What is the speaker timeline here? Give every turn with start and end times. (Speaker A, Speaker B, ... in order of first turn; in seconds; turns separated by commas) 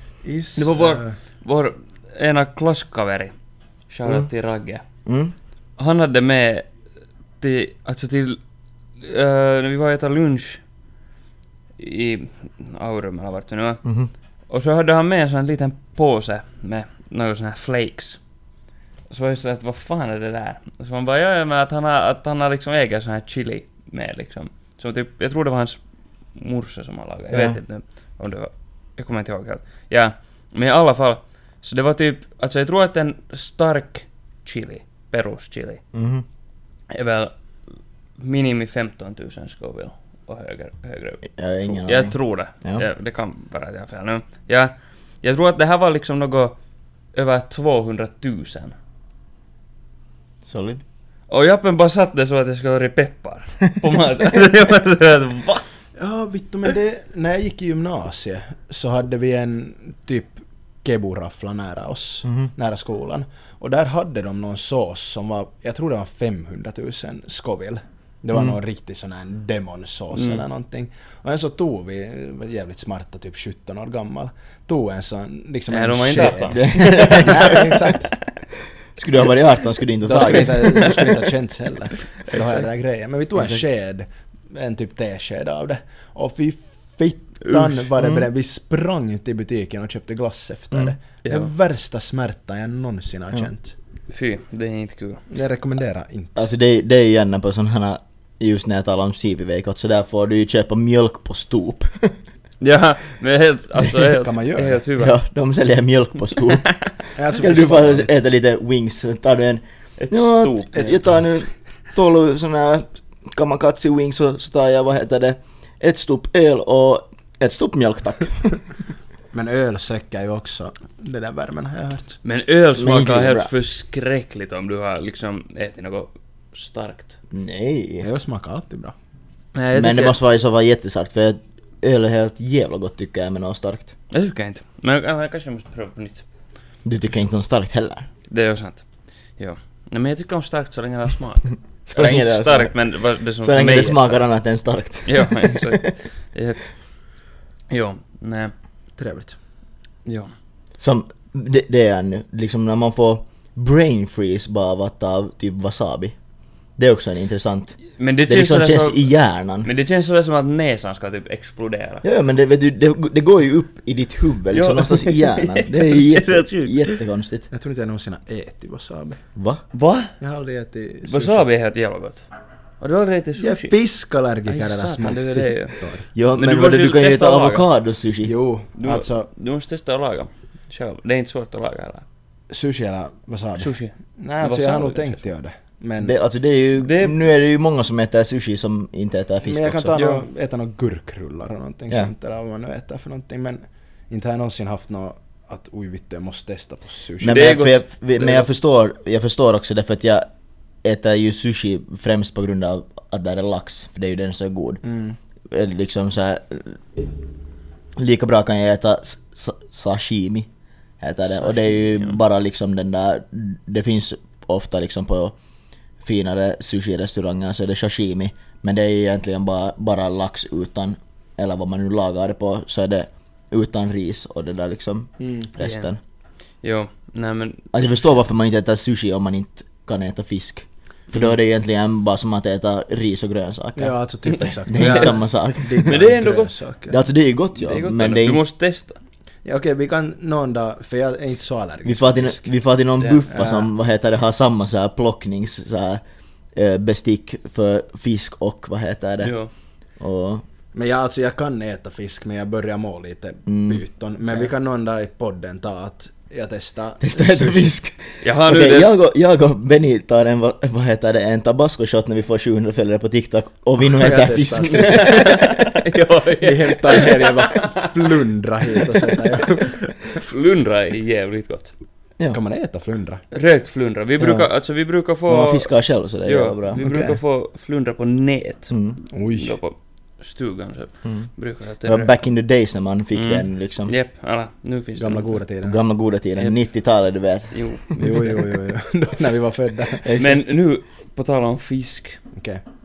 Speaker A: 0.2-1.1, Speaker B: 0.6-3.3, Speaker B: 3.9-4.8, Speaker C: 5.1-5.3, Speaker B: 5.8-6.7, Speaker B: 7.4-8.4, Speaker B: 9.0-10.6, Speaker B: 11.8-13.8, Speaker C: 13.8-14.1, Speaker B: 14.5-18.2, Speaker B: 19.1-25.8, Speaker B: 26.4-35.8, Speaker C: 27.3-27.6, Speaker C: 35.9-36.2, Speaker B: 36.9-37.3, Speaker B: 38.2-46.6, Speaker C: 41.2-42.9, Speaker B: 47.1-48.8, Speaker C: 50.4-50.8, Speaker B: 51.3-55.6, Speaker A: 56.0-78.1, Speaker B: 70.1-70.4, Speaker B: 75.7-77.9, Speaker C: 76.5-77.6, Speaker C: 79.0-81.0, Speaker A: 80.0-93.7, Speaker B: 80.5-81.0, Speaker B: 82.2-82.6, Speaker C: 83.4-83.6, Speaker B: 87.4-87.8, Speaker B: 91.2-91.5, Speaker B: 94.1-95.2, Speaker A: 95.3-96.5, Speaker C: 96.4-102.2, Speaker B: 102.6-105.1, Speaker A: 104.1-104.8, Speaker C: 105.0-118.6, Speaker B: 106.6-106.9, Speaker A: 107.2-108.2, Speaker B: 110.0-111.0, Speaker A: 110.8-111.0, Speaker A: 119.3-122.2, Speaker B: 122.2-127.2, Speaker C: 122.8-123.5, Speaker C: 127.3-128.1, Speaker A: 128.0-128.9, Speaker B: 129.5-130.2, Speaker C: 129.7-133.9, Speaker B: 134.1-136.2, Speaker C: 136.8-138.1, Speaker B: 138.3-138.8, Speaker B: 139.4-144.2, Speaker C: 141.9-142.8, Speaker C: 143.4-145.9, Speaker B: 145.0-146.7, Speaker B: 147.7-148.5, Speaker A: 149.0-149.4, Speaker B: 150.1-150.3, Speaker C: 150.8-156.1, Speaker C: 156.8-159.7, Speaker B: 158.0-159.1, Speaker B: 159.6-162.0, Speaker C: 162.0-167.5, Speaker B: 164.5-167.0, Speaker A: 167.5-169.2, Speaker C: 169.4-169.6, Speaker B: 169.7-170.1, Speaker A: 170.2-171.5, Speaker B: 171.1-172.2, Speaker B: 172.8-173.8, Speaker A: 173.4-176.1, Speaker B: 174.5-175.8, Speaker C: 176.1-178.3, Speaker B: 176.4-177.6, Speaker A: 178.2-179.3, Speaker B: 178.8-182.0, Speaker A: 182.5-186.2, Speaker B: 183.6-185.2, Speaker C: 186.0-190.0, Speaker B: 186.8-187.2, Speaker A: 189.4-197.6, Speaker B: 189.9-190.2, Speaker C: 197.2-200.3, Speaker B: 197.2-197.8, Speaker A: 198.2-198.5, Speaker C: 200.8-204.8, Speaker A: 204.8-205.2, Speaker C: 205.5-207.1, Speaker C: 208.0-210.5, Speaker C: 211.0-215.3, Speaker B: 211.9-212.1, Speaker C: 216.0-226.0, Speaker A: 225.2-225.5, Speaker B: 225.6-225.9, Speaker B: 226.6-228.1, Speaker C: 227.7-233.9, Speaker A: 233.8-237.0, Speaker C: 234.7-236.0, Speaker B: 235.8-236.5, Speaker C: 236.9-238.4, Speaker B: 237.5-239.0, Speaker A: 239.4-242.5, Speaker C: 241.8-246.0, Speaker B: 243.0-243.3, Speaker A: 243.3-243.7, Speaker C: 246.5-249.3, Speaker B: 249.2-249.5, Speaker C: 250.0-250.4, Speaker A: 250.7-257.7, Speaker C: 253.5-253.8, Speaker C: 257.0-265.8, Speaker B: 258.2-258.9, Speaker A: 263.9-265.2, Speaker B: 264.8-267.9, Speaker A: 266.4-269.9, Speaker B: 269.7-271.7, Speaker A: 272.3-273.2, Speaker B: 273.3-275.7, Speaker C: 274.2-274.5, Speaker C: 275.3-276.8, Speaker B: 276.2-282.1, Speaker A: 276.8-277.2, Speaker C: 278.7-279.0, Speaker A: 279.1-279.6, Speaker C: 281.0-281.3, Speaker C: 281.8-283.9, Speaker B: 283.1-285.4, Speaker A: 285.0-285.8, Speaker C: 285.6-288.0, Speaker B: 287.5-288.3, Speaker A: 288.0-290.1, Speaker C: 290.0-290.4, Speaker B: 290.1-292.2, Speaker A: 292.4-292.6